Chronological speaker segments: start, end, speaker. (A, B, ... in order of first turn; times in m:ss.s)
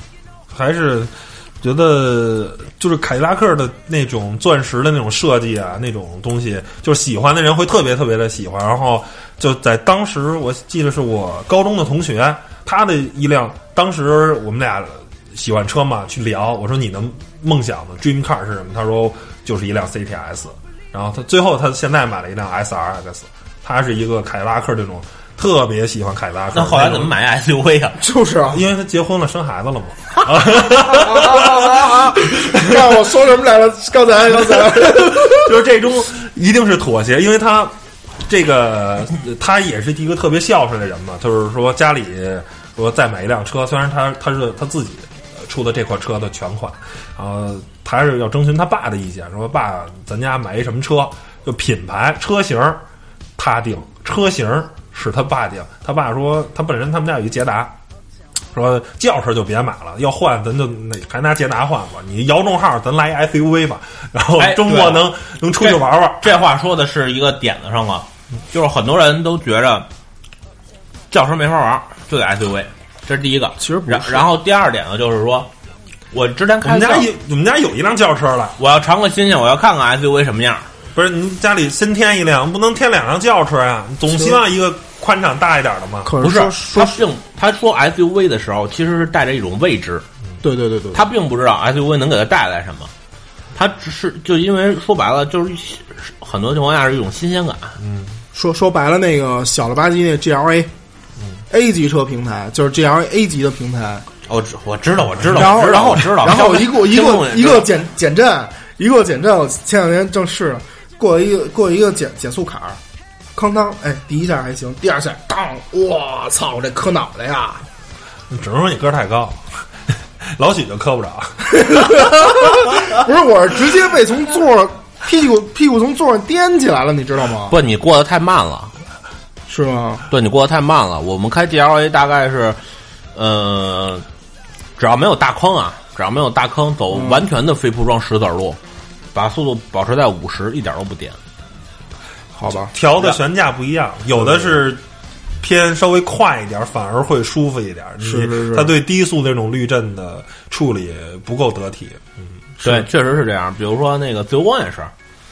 0:00.5-0:27.1 A
0:26.5-0:28.0 B
0:28.0-0:28.6 C
0:28.5-0:33.0 A
0:30.9-0:35.5 C
0:34.3-0:37.7 A
0:38.2-0:52.8 A
0:53.4-0:57.7 A
0:58.5-1:06.3 A
1:04.4-1:09.9 B
1:11.1-1:15.5 B
1:13.6-1:14.2 C
1:16.1-1:17.1 B
1:16.6-1:18.6 A
1:18.6-1:20.7 B
1:20.9-1:26.1 A
1:24.1-1:24.4 C
1:26.0-1:27.0 C
1:26.2-1:30.0 B
1:30.4-1:31.0 C
1:30.9-1:32.9 B
1:33.5-1:37.8 B
1:37.8-1:38.2 A
1:38.3-1:40.7 C
1:41.5-1:44.1 C
1:44.3-1:47.7 B
1:45.3-1:52.8 C
1:53.3-1:57.6 C
1:58.3-2:02.9 A
2:01.5-2:07.5 C
2:07.5-2:08.7 B
2:09.5-2:10.0 C
2:10.1-2:12.6 B
2:13.1-2:14.0 B
2:14.8-2:18.6 B
2:16.9-2:17.2 C
2:19.1-2:21.2 B
2:22.3-2:22.7 C
2:22.7-2:24.8 A
2:25.4-2:32.3 A
2:28.0-2:28.7 C
2:32.6-2:34.9 B